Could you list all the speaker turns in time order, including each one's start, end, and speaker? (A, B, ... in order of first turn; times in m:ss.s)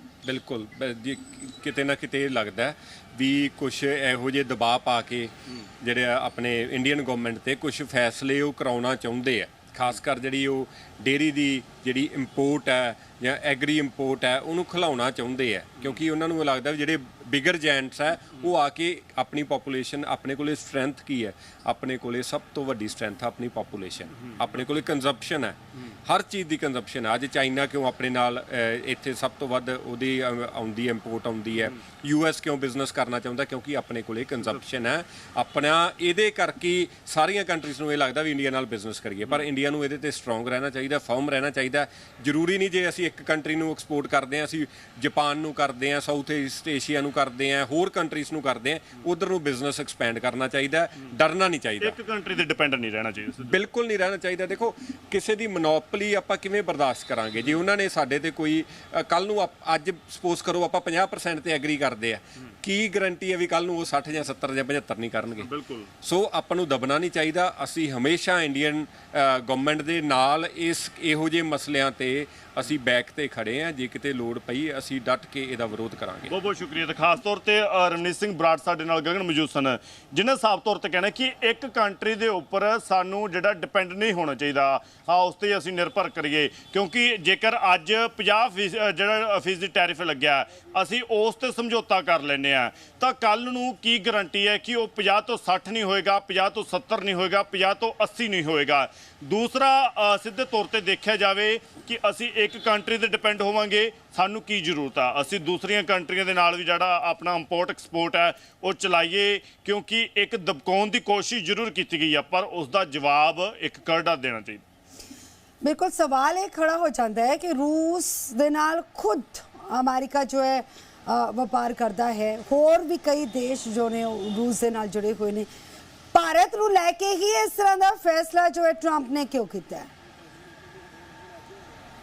0:00.2-0:52.0 A
0:51.8-0:53.6 B
0:53.4-1:05.5 A
1:05.4-1:05.9 B
1:06.0-1:16.3 A
1:16.3-1:54.6 B
1:55.6-2:05.5 C
2:06.1-2:09.9 C